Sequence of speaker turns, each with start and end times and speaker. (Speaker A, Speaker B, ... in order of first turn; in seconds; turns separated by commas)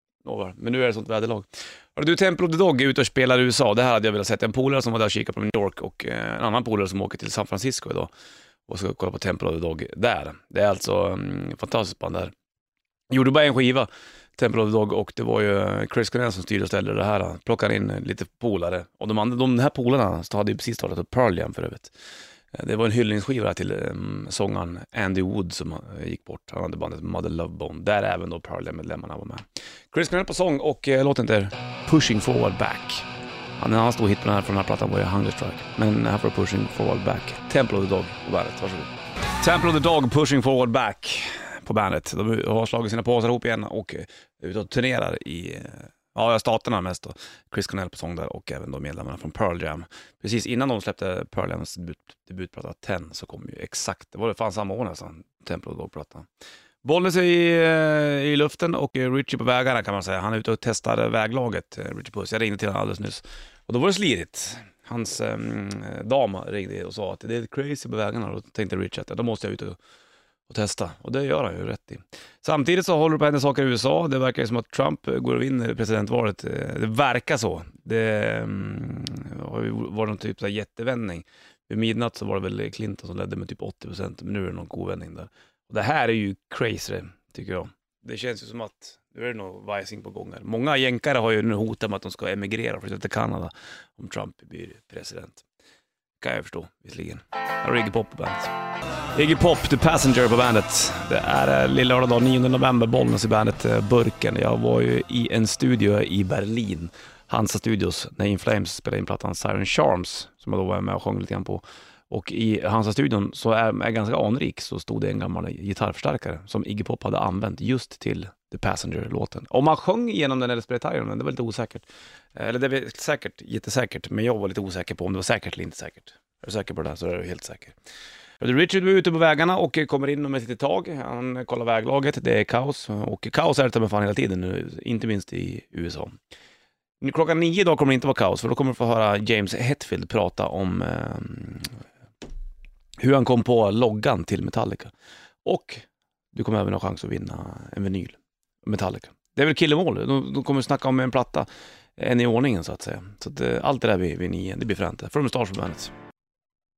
Speaker A: 0.2-8.1, Speaker A: 8.7-12.3, Speaker A: 13.1-21.9, Speaker A: 22.5-33.0, Speaker A: 33.6-56.3, Speaker A: 56.8-69.8, Speaker A: 70.5-95.4, Speaker A: 96.2-98.5, Speaker A: 99.1-121.8, Speaker A: 122.4-127.8, Speaker A: 128.4-136.2, Speaker A: 137.0-141.7, Speaker A: 143.0-144.9, Speaker A: 145.4-155.9